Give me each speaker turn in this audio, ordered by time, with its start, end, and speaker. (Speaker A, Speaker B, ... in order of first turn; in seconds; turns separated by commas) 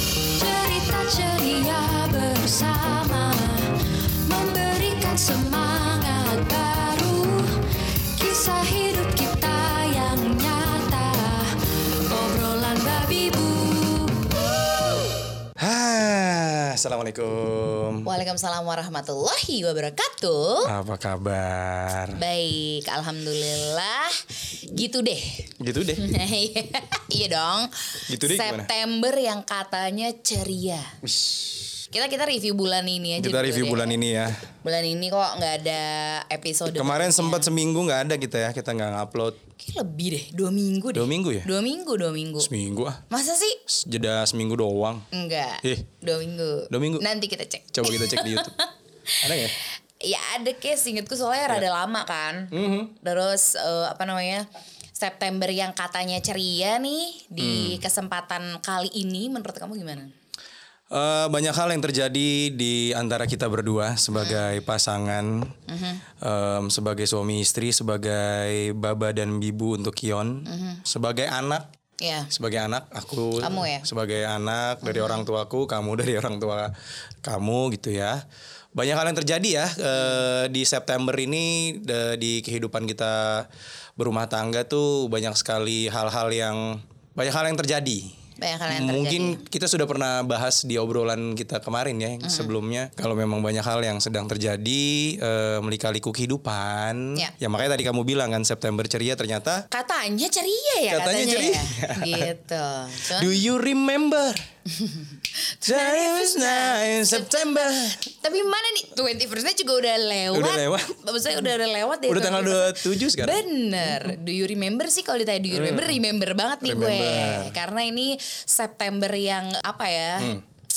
Speaker A: 0.2-14.4, Speaker B: 14.6-15.2, Speaker C: 15.6-18.1, Speaker B: 18.1-20.7, Speaker C: 20.6-22.2, Speaker B: 22.2-30.9, Speaker C: 25.6-26.1, Speaker C: 28.1-28.7, Speaker C: 31.0-31.7, Speaker B: 31.9-34.0, Speaker C: 33.2-34.5, Speaker B: 34.6-37.5, Speaker C: 36.7-39.4, Speaker B: 39.6-42.5, Speaker C: 40.9-41.5, Speaker C: 42.4-43.0, Speaker B: 43.1-43.6, Speaker C: 43.7-45.1, Speaker B: 45.1-60.1, Speaker C: 45.6-45.9, Speaker C: 46.7-47.0, Speaker C: 47.7-48.6, Speaker C: 49.2-49.6, Speaker C: 52.5-52.9, Speaker C: 57.4-57.8, Speaker C: 60.9-65.5, Speaker B: 64.2-64.5, Speaker B: 65.7-66.0, Speaker C: 66.2-71.7, Speaker B: 70.5-70.8, Speaker B: 72.0-72.3, Speaker C: 72.3-76.7, Speaker B: 73.4-73.9, Speaker B: 74.8-75.3, Speaker C: 77.2-78.2, Speaker C: 78.8-88.2, Speaker B: 79.9-80.3, Speaker B: 88.4-89.4, Speaker C: 88.7-99.7, Speaker B: 92.2-92.5, Speaker B: 99.7-103.4, Speaker C: 100.9-102.3, Speaker C: 103.1-104.5, Speaker B: 104.7-120.4, Speaker C: 105.7-108.1, Speaker C: 110.3-111.0, Speaker C: 112.1-114.1, Speaker C: 115.5-116.0, Speaker C: 116.6-117.5